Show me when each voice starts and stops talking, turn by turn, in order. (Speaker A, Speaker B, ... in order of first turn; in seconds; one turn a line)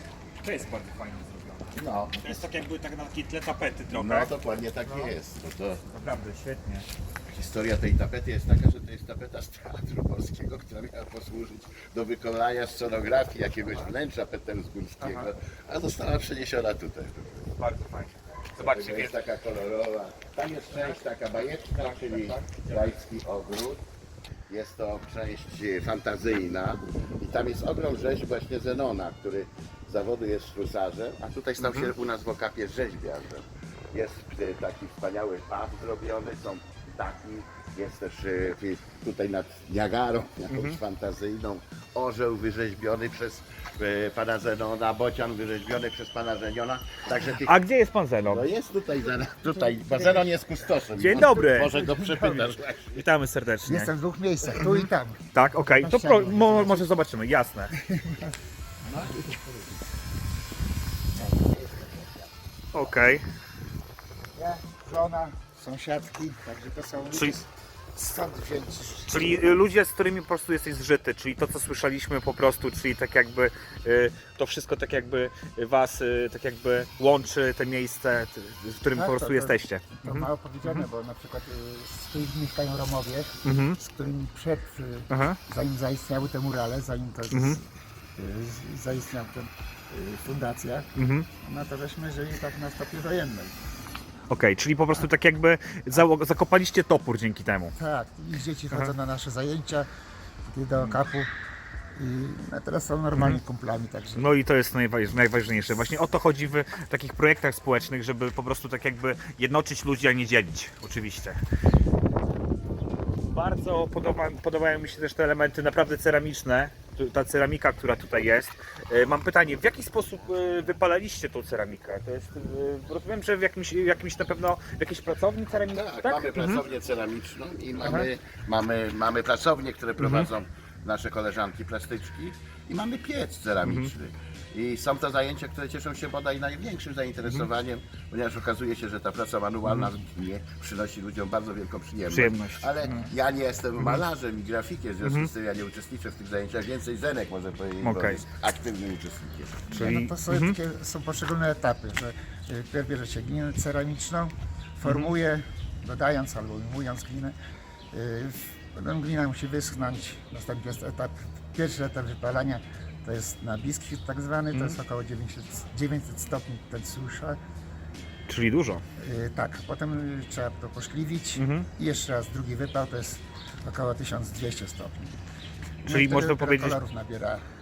Speaker A: 0.4-4.3
Speaker B: 1.8-2.4
Speaker B: 3.9-5.8
Speaker A: 4.8-5.1
Speaker A: 5.9-6.9
Speaker B: 7.3-17.4
Speaker A: 13.6-13.9
Speaker A: 15.0-15.3
Speaker A: 17.6-19.2
Speaker B: 18.6-23.8
Speaker A: 20.4-21.0
Speaker A: 21.6-23.0
Speaker B: 24.5-47.5
Speaker A: 31.6-31.9
Speaker A: 40.5-40.8
Speaker A: 47.4-48.5
Speaker B: 48.3-53.0
Speaker C: 49.5-50.5
Speaker A: 51.0-53.9
Speaker C: 53.6-56.9
Speaker A: 54.5-57.7
Speaker C: 57.7-58.3
Speaker C: 58.9-59.8
Speaker B: 58.9-59.3
Speaker C: 61.2-63.0
Speaker A: 62.7-63.2
Speaker C: 64.3-69.7
Speaker A: 67.1-67.4
Speaker A: 69.1-80.9
Speaker C: 78.9-90.9
Speaker A: 83.4-83.8
Speaker A: 85.1-85.4
Speaker A: 87.3-87.6
Speaker A: 91.0-91.3
Speaker C: 91.4-93.6
Speaker A: 94.3-97.8
Speaker C: 97.8-99.9
Speaker C: 100.5-101.3
Speaker C: 102.0-104.3
Speaker A: 103.2-103.4
Speaker A: 104.2-111.4
Speaker A: 113.3-126.6
Speaker B: 125.5-149.7
Speaker A: 130.0-130.3
Speaker A: 133.6-133.9
Speaker A: 142.1-143.1
Speaker A: 145.0-145.3
Speaker A: 147.8-148.2
Speaker A: 149.7-150.6
Speaker C: 149.7-157.4
Speaker A: 154.8-155.1
Speaker C: 157.9-167.4
Speaker A: 164.5-164.8
Speaker A: 168.3-168.8
Speaker C: 169.0-175.2
Speaker A: 171.4-171.7
Speaker C: 175.8-177.4
Speaker A: 175.9-176.8